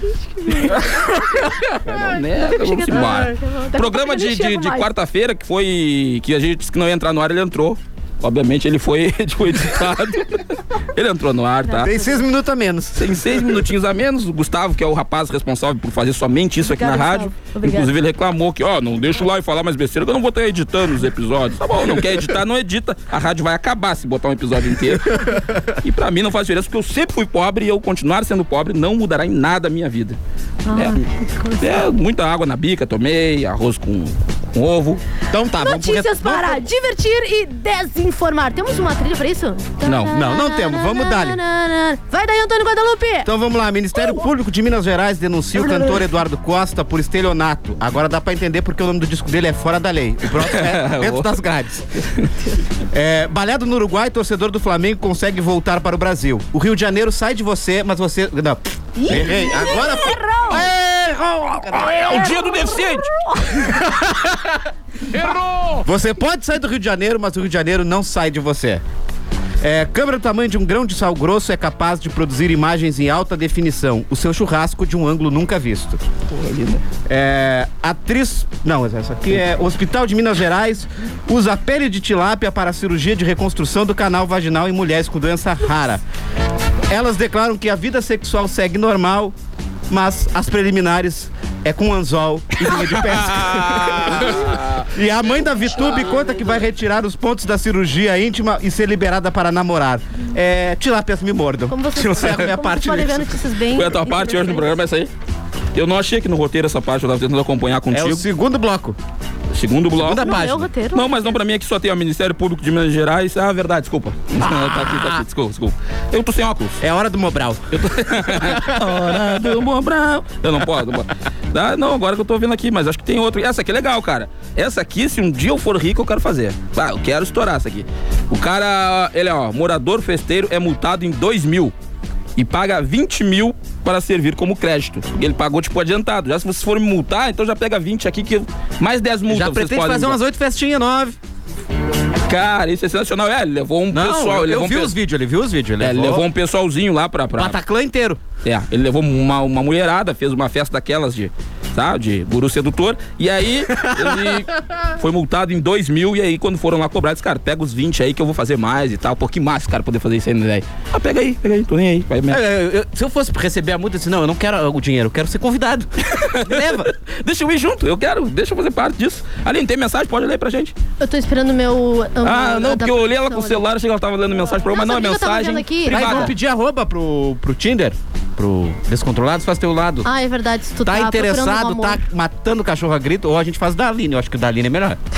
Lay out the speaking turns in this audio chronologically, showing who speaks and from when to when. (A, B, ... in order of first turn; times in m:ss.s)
0:00.1-0:01.5 A
0:00.6-0:01.0 B
0:01.8-0:11.9 B
0:02.4-0:04.9 A
0:11.7-0:12.2 A
0:11.8-0:13.4 C
0:13.0-0:30.2 B
0:16.6-0:17.9 A
0:30.7-0:31.9 A
0:30.7-0:31.0 B
0:31.6-0:35.0 B
0:35.3-0:36.6 C
0:35.6-0:43.3 A
0:39.8-0:40.2 B
0:40.1-0:41.4 C
0:43.3-0:51.9 C
0:44.0-0:44.3 A
0:45.6-0:46.0 A
0:50.4-0:51.3 B
0:52.9-1:02.3 C
0:59.0-1:00.7 A
1:01.7-1:03.1 B
1:02.1-1:03.8 A
1:03.7-1:04.5 C
1:05.8-1:08.8 C
1:09.6-1:16.0 C
1:16.3-1:16.8 B
1:17.1-1:26.0 C
1:26.9-1:29.4 C
1:29.9-1:43.4 C
1:32.9-1:34.9 B
1:35.8-1:36.3 A
1:41.7-1:44.8 A
1:43.7-1:45.1 B
1:45.8-1:48.2 B
1:47.9-1:49.0 C
1:49.5-1:56.8 B
1:50.0-1:50.7 C
1:50.2-1:51.4 A
1:56.8-1:59.5 C
1:57.7-2:11.7 B
2:12.4-2:20.2 B
2:19.3-2:21.2 C
2:22.3-2:24.9 B
2:23.9-2:26.2 C
2:25.8-2:27.6 B
2:27.4-2:28.2 C
2:28.4-2:42.4 B
2:33.8-2:34.2 C
2:42.3-2:46.9 C
2:46.1-2:50.7 B
2:51.0-2:53.6 A
2:52.2-2:56.3 B
2:54.7-2:56.3 A
2:55.9-3:00.1 C
3:00.0-3:02.0 A
3:00.8-3:05.0 C